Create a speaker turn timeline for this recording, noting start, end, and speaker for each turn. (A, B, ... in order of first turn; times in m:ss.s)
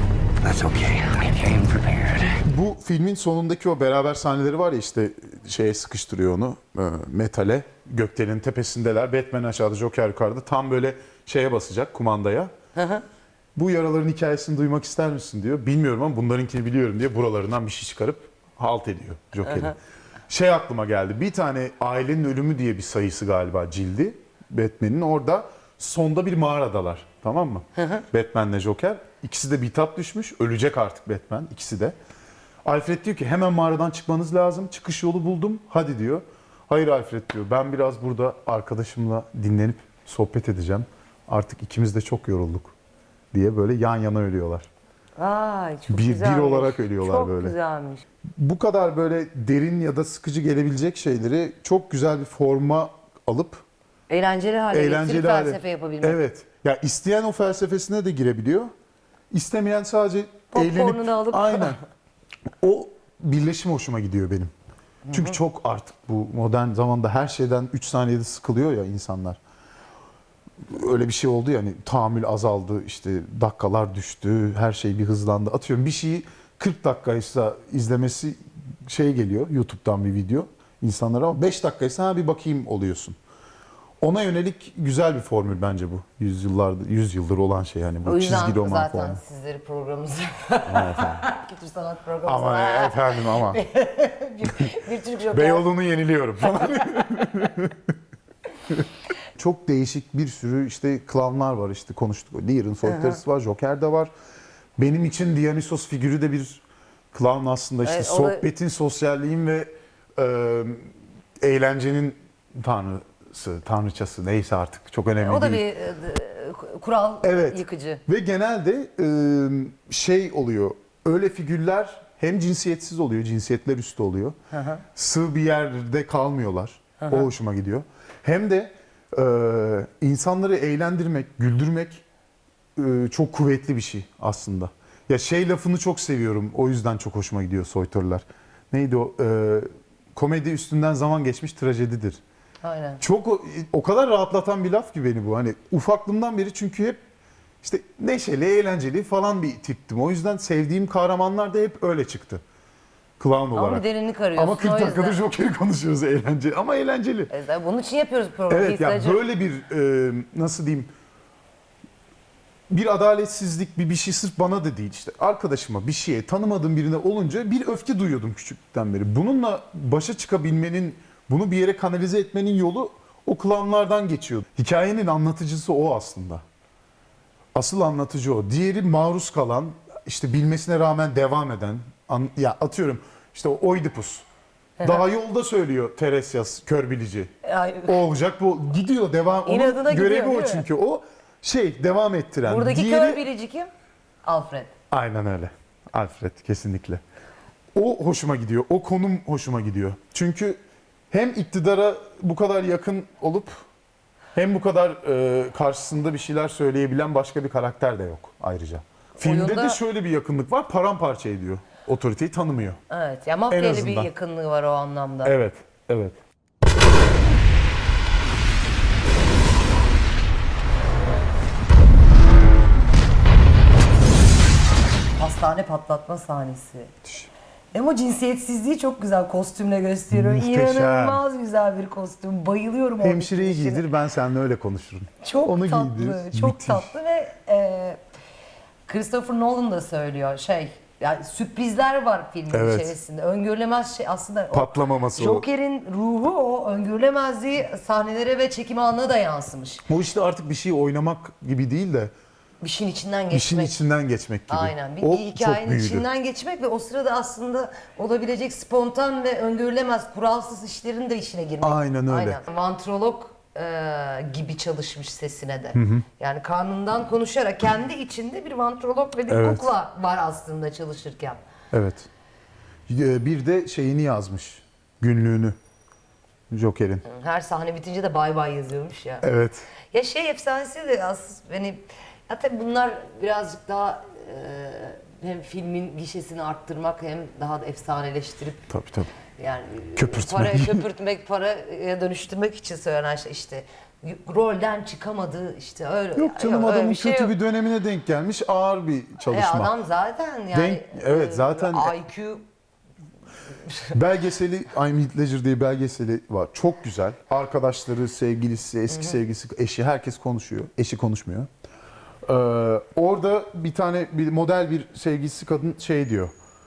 0:00.4-0:02.4 A
0:02.4-0:12.5 B
0:12.8-0:13.0 C
0:13.6-0:19.8 B
0:19.4-0:19.7 C
0:20.3-0:32.0 B
0:27.8-0:28.0 C
0:32.6-0:42.7 B
0:43.3-0:44.7 B
0:45.2-0:48.0 C
0:45.9-0:47.6 B
0:48.4-0:53.6 B
0:54.1-0:56.2 C
0:54.7-0:58.7 B
0:59.3-1:01.8 B
1:00.5-1:01.8 C
1:02.6-1:04.5 B
1:05.1-1:05.4 C
1:05.1-1:09.4 B
1:10.7-1:23.2 B
1:24.0-1:29.2 B
1:28.0-1:35.7 C
1:30.7-1:31.2 B
1:32.3-1:33.6 B
1:35.3-1:37.9 B
1:38.7-1:44.1 B
1:42.8-1:43.2 C
1:44.8-1:55.6 B
1:47.8-1:48.5 C
1:55.2-1:58.0 C
1:57.2-2:04.4 B
2:04.5-2:04.8 C
2:05.0-2:12.0 B
2:07.0-2:07.3 C
2:12.8-2:22.2 B
2:22.6-2:23.0 C
2:23.0-2:27.0 B
2:27.6-2:32.4 B
2:33.2-2:33.8 B
2:33.6-2:35.2 C
2:34.4-2:37.3 B
2:37.3-2:39.2 C
2:38.5-2:40.9 B
2:42.7-2:56.4 B
2:57.6-3:04.3 B
3:04.8-3:07.3 B
3:07.4-3:08.0 C
3:07.9-3:13.2 B
3:09.5-3:10.7 C
3:12.5-3:13.7 C
3:14.2-3:14.7 C
3:14.9-3:17.0 B
3:17.8-3:20.6 B
3:21.1-3:23.6 B
3:24.4-3:32.8 B
3:29.2-3:29.8 C
3:32.9-3:35.4 C
3:33.5-3:34.1 B
3:35.2-3:36.2 B
3:45.2-3:46.9 C
3:47.0-3:47.3 B
3:47.7-3:53.8 C
3:50.1-3:51.2 B
3:53.0-3:56.9 B
3:55.2-3:58.0 C
3:58.9-4:09.8 C
4:02.5-4:02.9 B
4:04.5-4:05.5 B
4:09.9-4:12.1 B
4:12.6-4:13.8 C
4:13.3-4:16.1 B
4:14.5-4:31.4 C
4:21.6-4:22.4 B
4:25.8-4:26.0 B
4:29.3-4:29.7 B
4:31.7-4:32.1 B
4:32.9-4:35.6 B
4:36.5-4:37.0 B
4:37.0-4:39.3 C
4:39.2-4:39.7 B
4:39.9-4:48.7 C
4:48.7-4:49.1 B
4:49.4-4:57.3 C
4:50.0-4:50.9 B
4:56.2-4:59.7 B
4:59.2-5:02.4 C
5:00.5-5:02.0 B
5:03.7-5:03.9 C
5:03.9-5:11.5 B
5:12.3-5:16.3 B